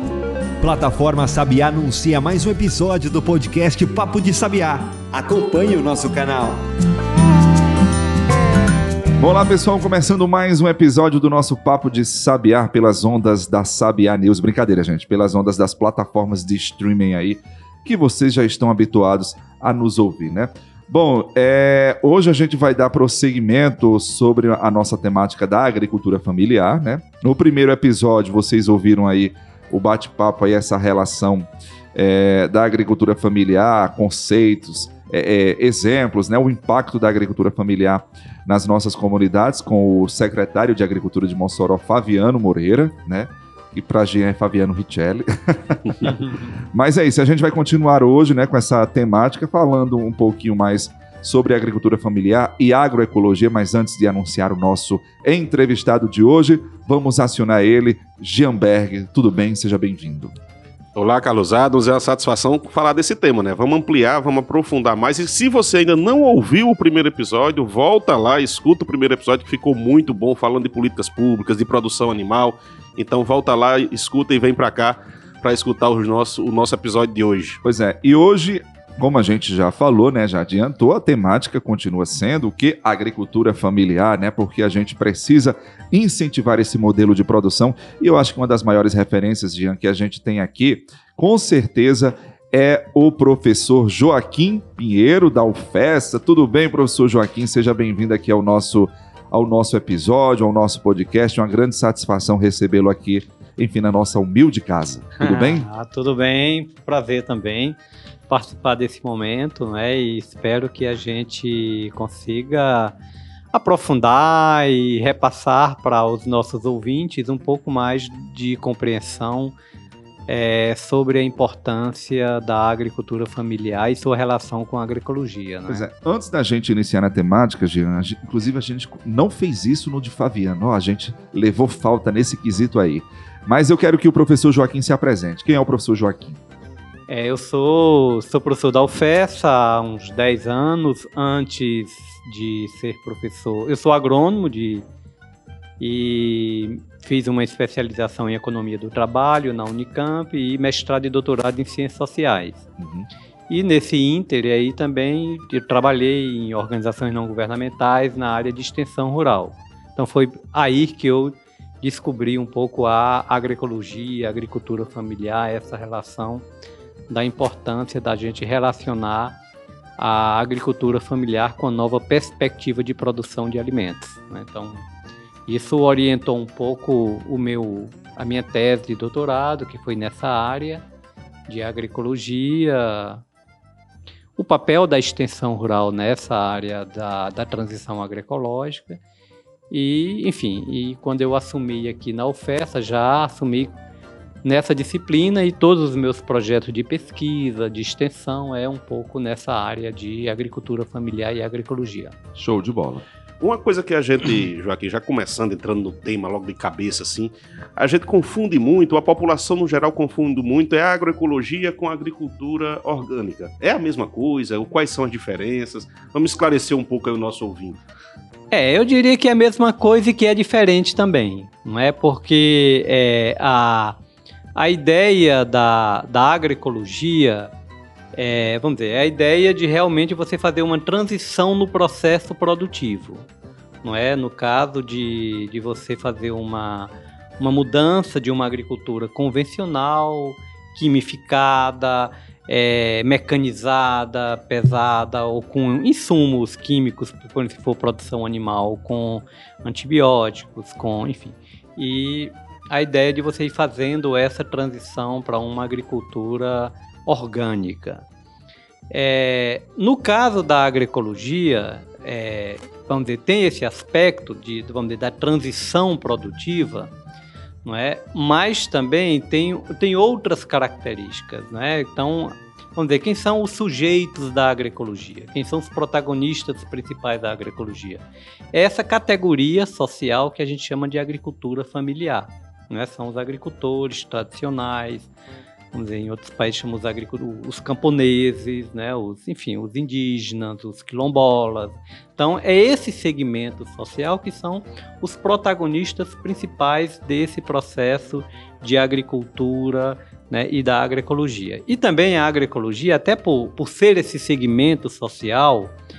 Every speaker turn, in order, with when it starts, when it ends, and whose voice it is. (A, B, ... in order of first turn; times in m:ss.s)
0:00.6-0:06.6 A
0:09.2-0:46.2 B
0:46.7-1:00.3 B
1:00.9-1:17.6 C
1:17.6-1:45.7 B
1:45.2-1:47.8 D
1:48.3-1:52.9 D
1:53.5-1:59.5 D
2:00.3-2:05.8 D
2:05.7-2:16.4 B
2:17.1-2:24.8 D
2:25.8-2:32.6 D
2:32.8-2:33.1 B
2:33.5-2:46.4 D
2:47.1-2:49.4 D
2:50.0-2:54.8 D
2:55.5-3:00.8 D
3:01.5-3:03.2 D
3:04.4-3:09.0 D
3:09.7-3:13.8 D
3:14.4-3:22.1 D
3:22.4-3:23.0 B
3:23.4-3:37.8 C
3:38.5-3:44.0 D
3:44.5-3:47.5 D
3:48.1-3:53.2 D
3:53.8-4:18.0 D
4:18.9-4:26.9 D
4:27.6-4:45.1 D
4:45.7-5:05.7 D